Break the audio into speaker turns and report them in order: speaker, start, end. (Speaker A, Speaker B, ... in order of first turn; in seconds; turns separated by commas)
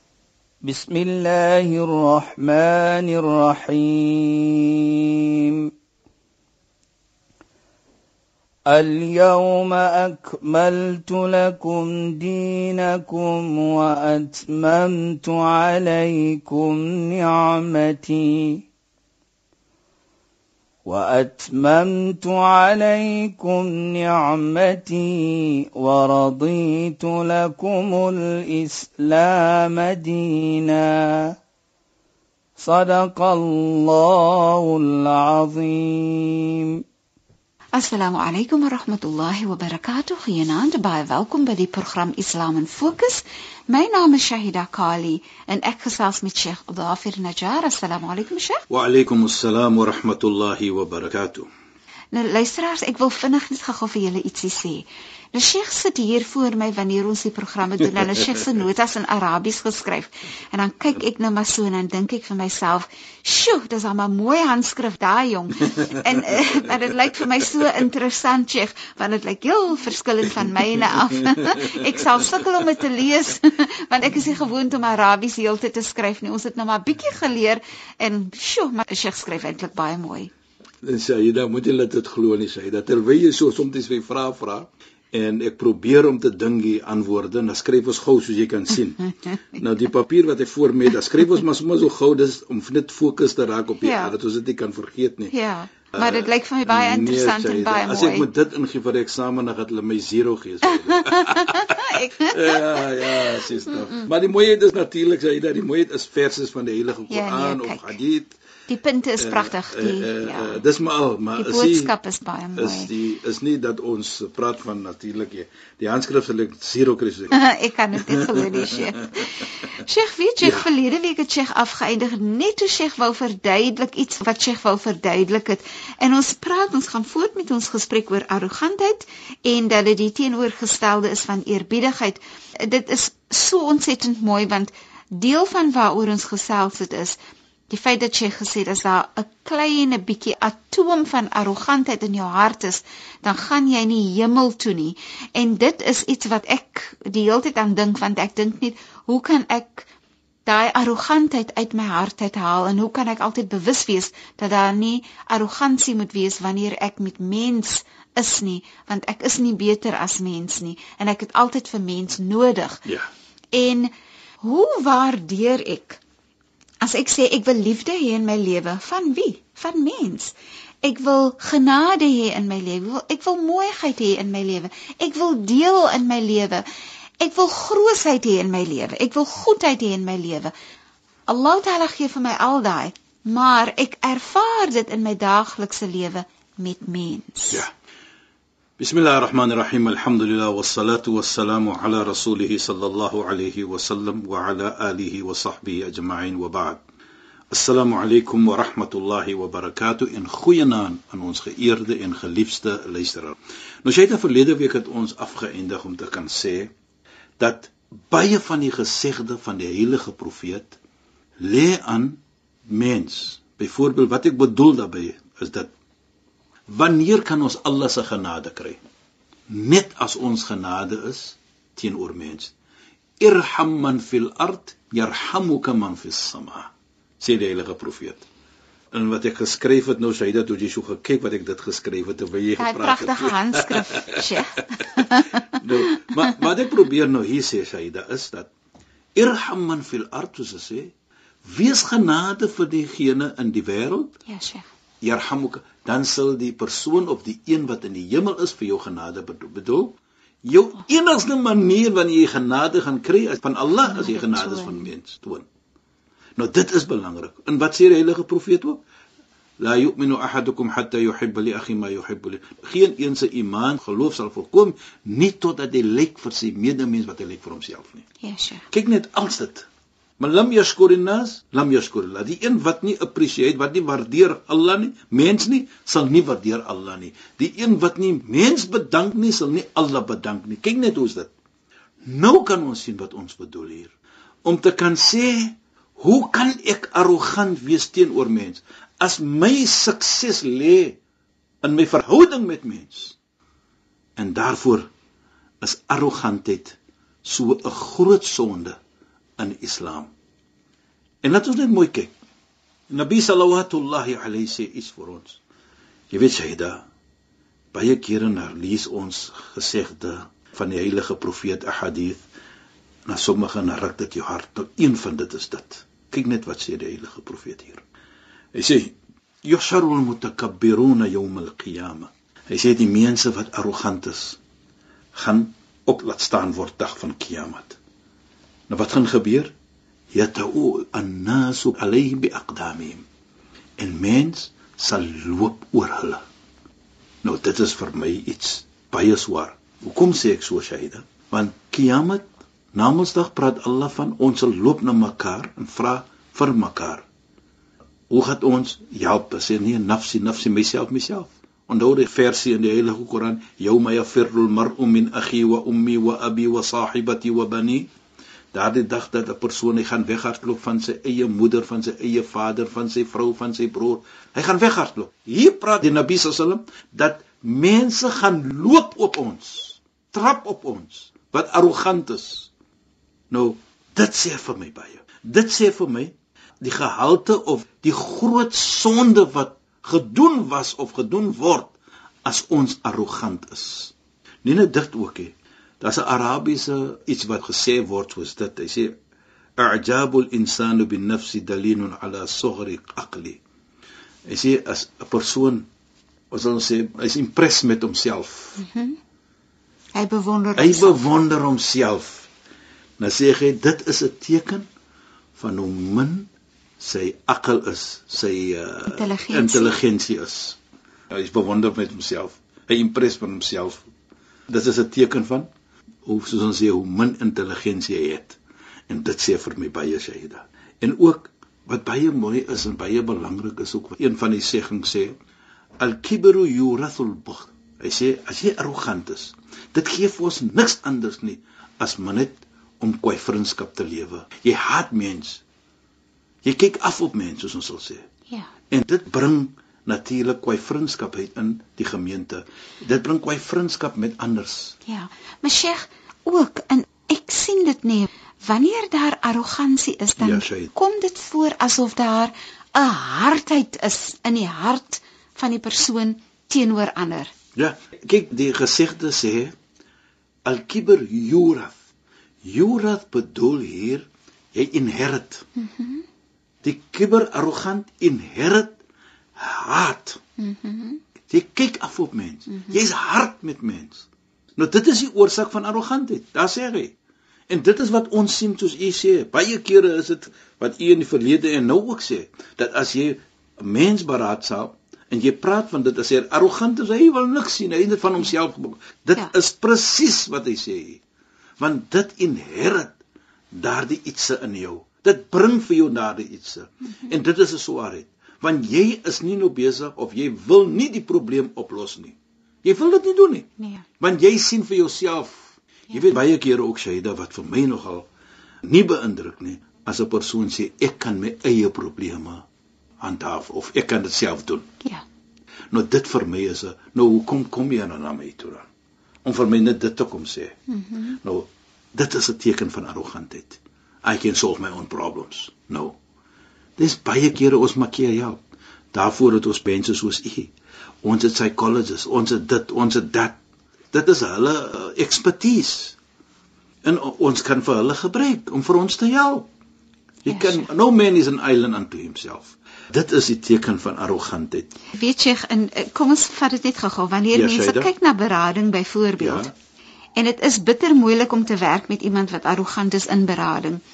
Speaker A: 0.6-5.7, Speaker A: 8.7-18.7, Speaker A: 20.8-31.3, Speaker A: 32.6-36.8, Speaker B: 37.7-48.6, Speaker C: 48.7-51.5, Speaker B: 52.1-80.3, Speaker C: 71.3-71.7, Speaker C: 80.8-95.3, Speaker B: 93.8-94.1, Speaker B: 95.3-98.3, Speaker C: 95.9-108.4, Speaker B: 100.9-103.4, Speaker B: 107.1-108.0, Speaker B: 108.7-110.6, Speaker C: 109.2-111.9, Speaker B: 111.3-112.9, Speaker C: 112.5-117.4, Speaker B: 117.3-137.2, Speaker C: 117.9-118.8, Speaker C: 120.4-120.7, Speaker B: 137.7-149.9, Speaker B: 150.4-162.8, Speaker B: 163.5-163.9, Speaker B: 164.4-166.0, Speaker B: 166.8-176.6, Speaker B: 177.2-180.5, Speaker B: 181.3-187.6, Speaker C: 188.8-196.8, Speaker C: 197.5-206.7, Speaker C: 207.4-210.8, Speaker C: 211.4-215.7, Speaker C: 216.7-218.8, Speaker C: 219.5-222.5, Speaker C: 223.2-228.2, Speaker C: 228.9-234.8, Speaker B: 232.6-235.5, Speaker C: 235.5-238.5, Speaker C: 239.1-240.9, Speaker C: 241.4-244.2, Speaker B: 244.2-244.7, Speaker C: 245.0-255.4, Speaker B: 253.8-254.9, Speaker C: 256.4-258.8, Speaker C: 259.6-268.0, Speaker B: 268.2-268.6, Speaker C: 268.7-269.6, Speaker C: 270.2-281.3, Speaker C: 282.0-283.9, Speaker C: 284.4-291.0, Speaker C: 291.6-293.2, Speaker C: 294.1-294.9, Speaker C: 295.6-298.8, Speaker C: 299.4-300.1, Speaker C: 301.2-302.1, Speaker C: 302.9-305.4, Speaker C: 306.1-306.8, Speaker C: 307.7-312.2, Speaker C: 313.1-317.8, Speaker C: 318.5-318.9, Speaker C: 319.4-324.4, Speaker C: 325.1-327.8, Speaker C: 328.7-329.5, Speaker C: 330.1-333.0, Speaker C: 333.8-336.2, Speaker C: 337.2-347.1, Speaker C: 348.1-357.9, Speaker C: 358.5-372.5, Speaker C: 373.3-383.9, Speaker C: 384.4-388.9, Speaker C: 389.6-393.4, Speaker C: 394.3-395.7, Speaker C: 396.3-398.6, Speaker B: 398.6-399.0, Speaker B: 399.9-401.0, Speaker C: 400.6-402.3, Speaker C: 403.0-404.7, Speaker C: 405.4-410.6, Speaker B: 408.9-409.8, Speaker C: 411.1-413.8, Speaker C: 414.5-415.5, Speaker C: 416.0-418.4, Speaker C: 418.9-425.1, Speaker C: 425.8-435.4, Speaker C: 436.4-438.1, Speaker C: 438.7-444.8, Speaker B: 444.9-457.3, Speaker C: 450.2-450.7, Speaker C: 457.6-459.5, Speaker C: 460.4-461.8, Speaker C: 462.4-465.4, Speaker B: 465.6-466.0, Speaker C: 466.6-468.8, Speaker C: 469.4-470.2, Speaker B: 470.4-471.0, Speaker C: 471.2-476.9, Speaker C: 477.5-491.0, Speaker C: 491.6-493.0, Speaker C: 493.5-508.1, Speaker B: 503.6-503.8, Speaker C: 508.6-512.4, Speaker C: 513.0-514.7, Speaker C: 515.7-518.6, Speaker C: 519.2-520.5, Speaker B: 520.7-521.2, Speaker C: 521.2-526.0, Speaker C: 526.8-530.5, Speaker C: 531.0-533.4, Speaker C: 533.9-536.0, Speaker C: 536.8-539.5, Speaker B: 540.2-540.7, Speaker C: 540.2-544.7, Speaker B: 545.0-549.5, Speaker C: 547.3-547.9, Speaker C: 549.2-549.5, Speaker B: 550.1-553.8